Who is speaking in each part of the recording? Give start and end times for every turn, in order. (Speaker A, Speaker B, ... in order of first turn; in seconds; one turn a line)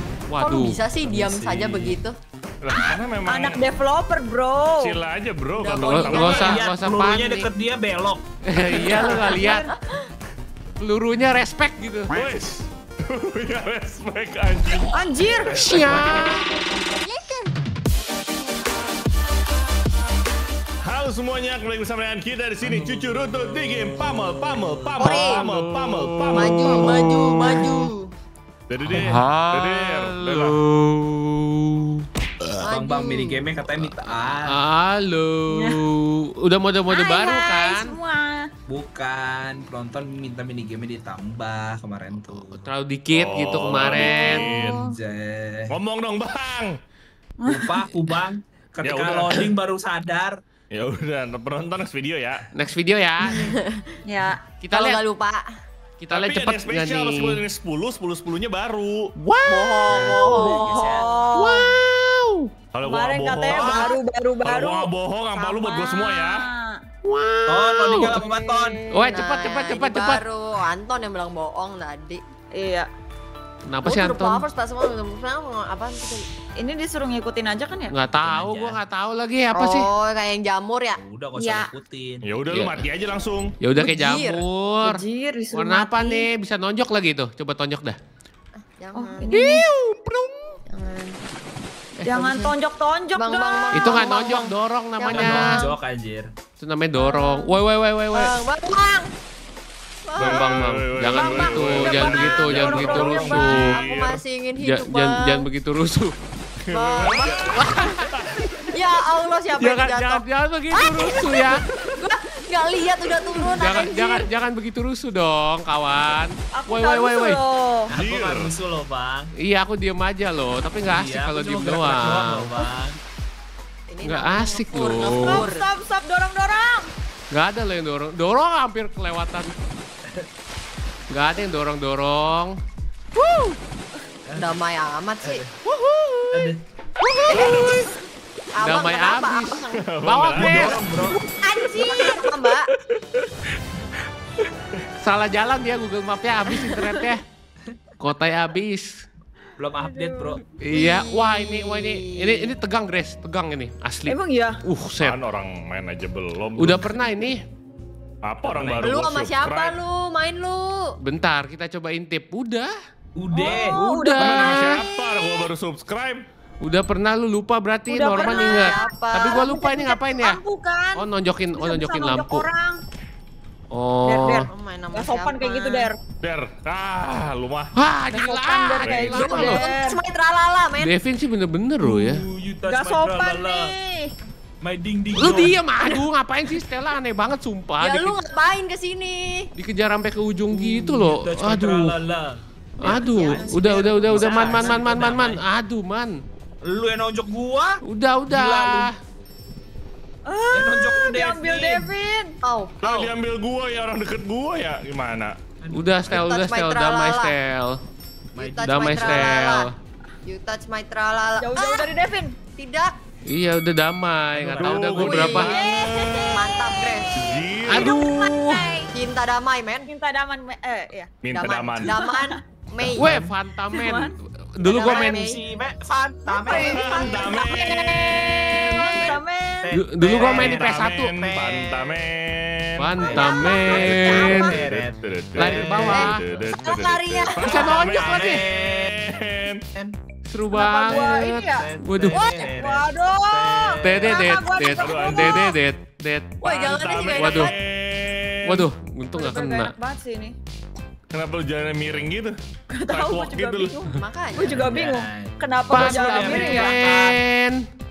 Speaker A: 0.3-0.8
Speaker B: 0.4-2.2
Speaker C: 1.0-2.0
Speaker D: 2.6-3.6
Speaker E: 3.3-5.0
Speaker D: 4.8-6.6
Speaker B: 5.6-6.6
Speaker A: 5.8-7.5
Speaker C: 6.1-8.2
Speaker A: 8.5-9.7
Speaker B: 8.8-10.0
Speaker E: 8.9-9.8
Speaker A: 10.8-12.1
Speaker D: 12.1-16.1
Speaker E: 14.9-15.6
Speaker A: 15.5-16.6
Speaker B: 16.0-16.4
Speaker B: 17.0-17.5
Speaker D: 20.8-27.2
Speaker B: 25.0-25.4
Speaker A: 25.3-27.8
Speaker B: 26.3-28.1
Speaker D: 28.7-30.6
Speaker A: 28.9-32.0
Speaker B: 32.6-33.5
Speaker C: 32.6-34.6
Speaker A: 34.5-38.0
Speaker E: 35.5-35.9
Speaker E: 36.9-38.5
Speaker C: 38.7-42.6
Speaker A: 42.3-44.5
Speaker D: 43.1-44.8
Speaker E: 44.1-45.0
Speaker C: 44.8-45.8
Speaker D: 45.7-46.8
Speaker E: 47.4-47.8
Speaker C: 47.5-50.4
Speaker D: 48.8-49.5
Speaker D: 50.7-52.4
Speaker A: 52.5-53.5
Speaker B: 53.3-54.0
Speaker E: 54.1-54.4
Speaker A: 54.6-55.0
Speaker B: 54.7-55.5
Speaker A: 56.0-57.4
Speaker D: 56.1-59.1
Speaker A: 59.2-60.0
Speaker B: 59.5-61.1
Speaker C: 59.9-61.2
Speaker E: 60.3-61.7
Speaker A: 61.3-62.5
Speaker D: 62.7-66.5
Speaker E: 62.8-66.8
Speaker C: 63.5-64.0
Speaker A: 67.0-68.2
Speaker C: 67.5-68.8
Speaker E: 68.1-69.1
Speaker A: 68.9-70.2
Speaker B: 69.1-72.2
Speaker E: 72.5-72.9
Speaker A: 73.7-74.4
Speaker B: 73.8-76.3
Speaker E: 76.6-78.0
Speaker A: 77.9-79.9
Speaker C: 78.1-78.8
Speaker B: 79.5-81.0
Speaker C: 81.0-82.3
Speaker E: 81.3-81.7
Speaker D: 82.2-83.5
Speaker A: 83.6-85.0
Speaker B: 83.8-84.4
Speaker E: 84.8-86.3
Speaker A: 85.5-88.0
Speaker B: 88.8-89.3
Speaker E: 88.9-89.6
Speaker A: 89.3-90.6
Speaker B: 90.7-91.2
Speaker A: 92.0-92.5
Speaker E: 92.0-94.0
Speaker B: 93.2-95.7
Speaker A: 93.7-95.7
Speaker C: 95.1-96.3
Speaker A: 96.6-98.3
Speaker B: 97.0-97.6
Speaker B: 98.1-99.1
Speaker B: 100.0-105.5
Speaker D: 100.2-104.2
Speaker A: 100.2-103.8
Speaker E: 101.8-103.3
Speaker A: 104.6-106.2
Speaker D: 106.7-108.5
Speaker B: 106.7-107.9
Speaker A: 107.5-108.1
Speaker B: 108.7-110.2
Speaker A: 109.6-111.6
Speaker B: 110.7-114.3
Speaker A: 113.6-117.4
Speaker E: 116.5-117.9
Speaker C: 117.9-119.3
Speaker D: 117.9-118.5
Speaker A: 119.4-122.6
Speaker C: 120.9-123.0
Speaker B: 123.9-125.7
Speaker A: 124.0-125.5
Speaker E: 125.0-126.9
Speaker A: 127.3-129.5
Speaker A: 131.1-132.6
Speaker C: 134.3-134.6
Speaker B: 134.4-135.4
Speaker C: 135.2-135.5
Speaker A: 135.7-136.5
Speaker C: 136.3-136.6
Speaker B: 137.1-137.9
Speaker D: 137.3-137.9
Speaker B: 138.6-139.8
Speaker A: 138.6-140.8
Speaker D: 139.8-140.9
Speaker C: 140.4-141.2
Speaker B: 141.2-142.7
Speaker E: 141.5-142.3
Speaker A: 145.0-147.2
Speaker B: 146.6-147.1
Speaker A: 148.0-149.1
Speaker C: 149.6-150.4
Speaker E: 149.8-150.4
Speaker A: 150.6-155.2
Speaker B: 150.7-152.6
Speaker E: 154.1-154.6
Speaker D: 155.0-156.9
Speaker A: 156.6-157.4
Speaker D: 158.2-159.8
Speaker C: 158.5-158.9
Speaker B: 158.8-160.9
Speaker A: 161.0-162.7
Speaker C: 163.2-163.8
Speaker E: 163.3-164.7
Speaker A: 163.7-164.8
Speaker D: 164.2-166.2
Speaker A: 166.6-170.4
Speaker E: 167.9-172.8
Speaker B: 168.1-169.5
Speaker A: 170.9-172.5
Speaker A: 173.7-174.4
Speaker E: 174.1-176.0
Speaker B: 174.5-175.9
Speaker D: 176.2-177.7
Speaker A: 177.8-179.7
Speaker E: 178.1-180.0
Speaker D: 178.8-179.3
Speaker B: 179.1-180.9
Speaker A: 180.8-182.2
Speaker C: 181.8-183.7
Speaker E: 182.7-184.1
Speaker C: 184.6-185.6
Speaker A: 185.2-188.2
Speaker B: 187.8-189.5
Speaker A: 189.6-191.9
Speaker C: 190.5-195.4
Speaker A: 192.8-196.2
Speaker B: 192.8-194.8
Speaker C: 196.6-198.9
Speaker A: 197.8-198.9
Speaker E: 200.3-202.3
Speaker C: 200.5-201.9
Speaker B: 202.4-203.1
Speaker D: 202.8-205.4
Speaker C: 205.6-206.2
Speaker A: 205.7-207.8
Speaker B: 206.1-207.4
Speaker C: 208.3-209.5
Speaker B: 208.4-209.7
Speaker A: 208.6-209.7
Speaker B: 210.2-211.9
Speaker E: 211.4-212.4
Speaker B: 212.5-213.0
Speaker A: 213.2-215.6
Speaker C: 214.3-214.9
Speaker D: 214.6-216.2
Speaker E: 215.0-217.1
Speaker B: 215.1-218.1
Speaker D: 217.1-218.0
Speaker A: 217.7-218.8
Speaker E: 217.8-218.9
Speaker B: 218.9-219.9
Speaker E: 219.9-221.1
Speaker D: 221.2-222.0
Speaker B: 221.3-223.1
Speaker E: 221.8-222.4
Speaker A: 223.0-225.2
Speaker C: 223.0-223.3
Speaker E: 223.7-224.2
Speaker B: 224.6-225.4
Speaker C: 224.7-227.0
Speaker E: 226.3-229.8
Speaker B: 226.4-229.2
Speaker D: 226.5-228.7
Speaker C: 229.6-232.0
Speaker A: 229.7-231.1
Speaker D: 230.1-232.9
Speaker A: 232.8-234.6
Speaker C: 233.0-236.1
Speaker B: 233.1-234.6
Speaker D: 233.7-239.6
Speaker A: 235.4-236.2
Speaker B: 235.9-237.7
Speaker A: 237.4-238.4
Speaker C: 237.4-239.1
Speaker A: 240.3-242.2
Speaker E: 240.5-245.6
Speaker C: 240.9-244.3
Speaker A: 243.8-246.4
Speaker D: 244.8-245.5
Speaker B: 246.4-247.5
Speaker D: 246.5-248.7
Speaker A: 247.2-247.5
Speaker A: 248.5-249.7
Speaker E: 249.1-250.4
Speaker D: 251.1-252.3
Speaker E: 252.7-256.9
Speaker D: 252.9-253.8
Speaker B: 253.9-254.6
Speaker C: 254.5-257.2
Speaker A: 255.7-257.6